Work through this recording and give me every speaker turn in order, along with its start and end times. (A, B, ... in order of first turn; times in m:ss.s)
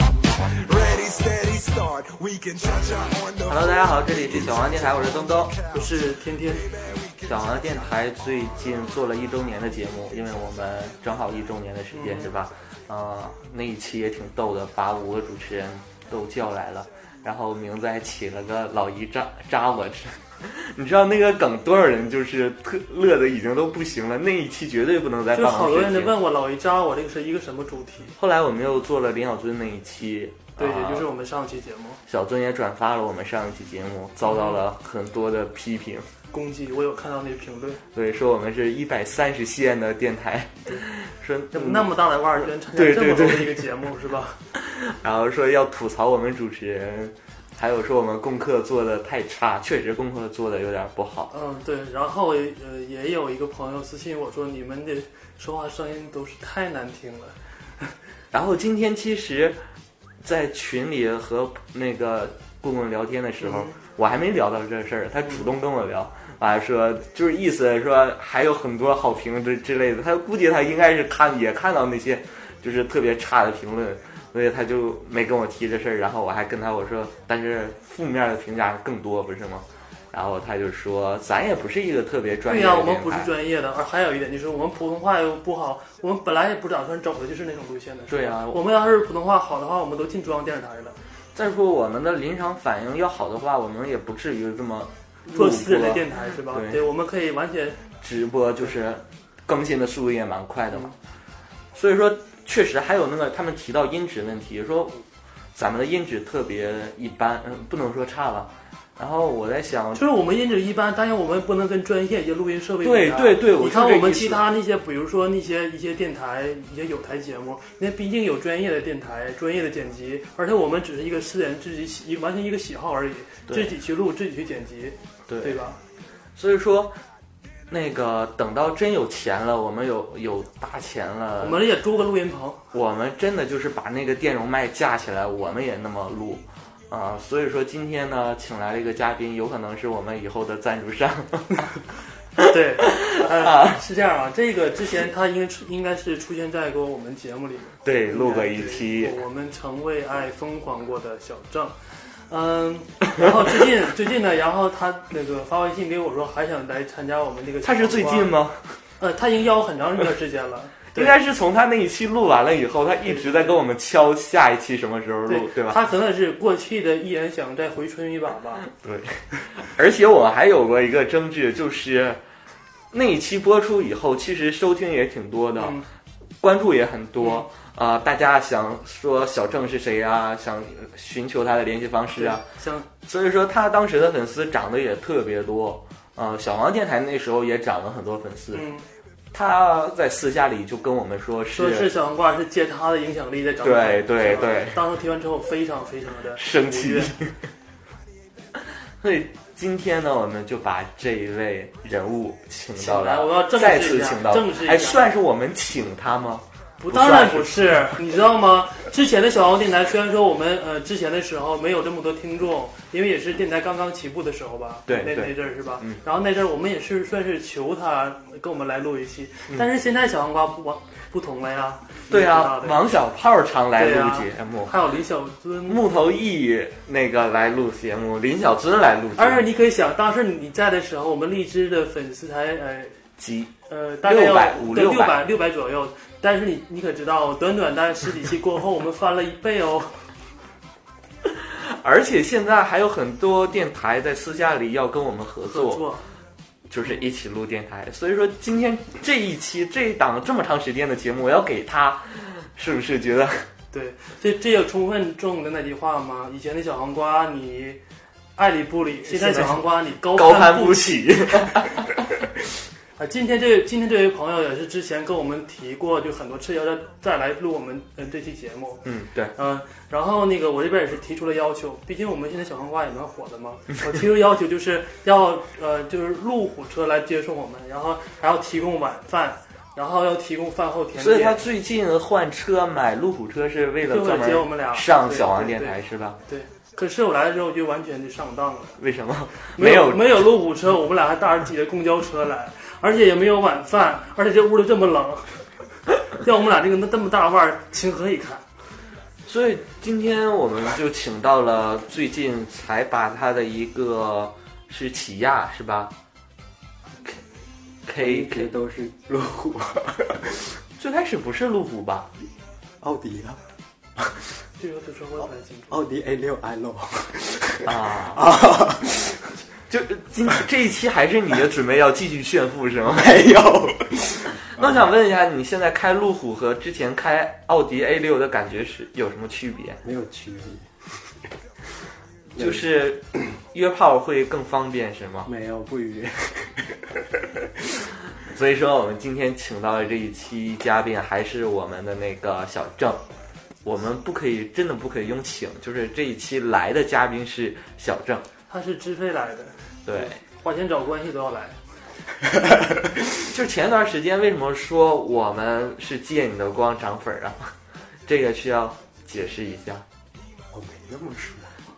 0:00.7-0:07.9 A
0:03.5-0:05.5 B
0:05.7-0:06.6 C
0:07.2-0:26.1 B
0:11.9-0:12.3 C
0:25.3-0:28.2 C
0:28.2-0:31.1 B
0:30.6-0:32.0 C
0:32.1-0:36.1 B
0:34.2-0:34.6 C
0:36.3-0:37.8 C
0:37.9-0:41.9 B
0:41.5-0:44.4 C
0:42.7-0:43.6 B
0:44.5-0:51.3 B
0:51.3-0:57.9 C
0:58.3-0:59.6 B
1:00.2-1:23.3 B
1:03.4-1:03.8 C
1:22.5-1:31.0 C
1:28.1-1:28.6 B
1:31.3-1:36.8 B
1:35.3-1:37.8 C
1:38.0-1:40.9 B
1:41.7-1:45.0 B
1:45.5-1:50.0 B
1:49.9-2:05.8 C
1:52.8-1:54.4 B
2:03.5-2:03.7 B
2:05.3-2:05.6 B
2:06.4-2:07.0 B
2:07.7-2:11.6 B
2:11.4-2:12.6 C
2:12.7-2:21.5 B
2:22.4-2:38.3 C
2:22.4-2:23.8 B
2:27.8-2:29.2 B
2:37.6-2:38.8 B
2:39.0-2:41.1 C
2:40.9-2:45.8 B
2:43.1-2:43.4 C
2:45.3-2:48.6 C
2:48.7-2:52.2 B
2:52.9-2:55.8 B
2:55.6-2:55.8 C
2:56.4-3:02.4 B
2:57.2-2:57.4 C
3:02.2-3:02.9 C
3:03.0-3:08.7 B
3:08.5-3:08.8 C
3:09.3-3:11.9 B
3:11.5-3:17.1 C
3:13.6-3:14.8 B
3:16.4-3:17.3 B
3:19.0-3:27.9 B
3:22.8-3:25.0 C
3:26.8-3:42.8 C
3:34.9-3:36.0 B
3:42.1-3:44.8 B
3:43.8-3:45.8 C
3:45.7-3:49.4 B
3:49.2-3:53.0 C
3:53.2-3:53.5 B
3:53.7-4:00.0 C
3:54.0-3:55.2 B
4:01.4-4:05.9 B
4:05.5-4:06.0 C
4:06.7-4:13.5 B
4:06.8-4:07.1 C
4:13.7-4:17.8 C
4:18.4-4:21.5 C
4:19.0-4:22.1 B
4:23.0-4:41.4 C
4:28.8-4:29.3 B
4:41.0-4:46.2 B
4:43.9-4:45.8 C
4:46.3-4:48.8 C
4:48.8-4:50.2 B
4:49.5-4:55.4 C
4:56.1-4:58.4 C
4:59.2-5:05.9 B
5:07.8-5:08.5 B
5:08.0-5:10.5 D
5:10.8-5:12.1 B
5:12.8-5:13.4 D
5:14.0-5:14.2 D
5:14.6-5:15.8 C
5:15.7-5:19.3 D
5:17.6-5:18.3 B
5:19.7-5:23.1 B
5:22.9-5:24.8 D
5:24.5-5:29.8 B
5:29.8-5:30.7 D
5:32.4-5:32.7 D
5:32.4-5:35.3 B
5:35.2-5:37.8 D
5:38.2-5:43.0 B
5:43.6-5:48.2 B
5:48.5-5:51.6 C
5:49.8-5:50.2 B
5:53.3-5:57.5 B
5:58.1-5:59.8 B
6:00.5-6:01.6 D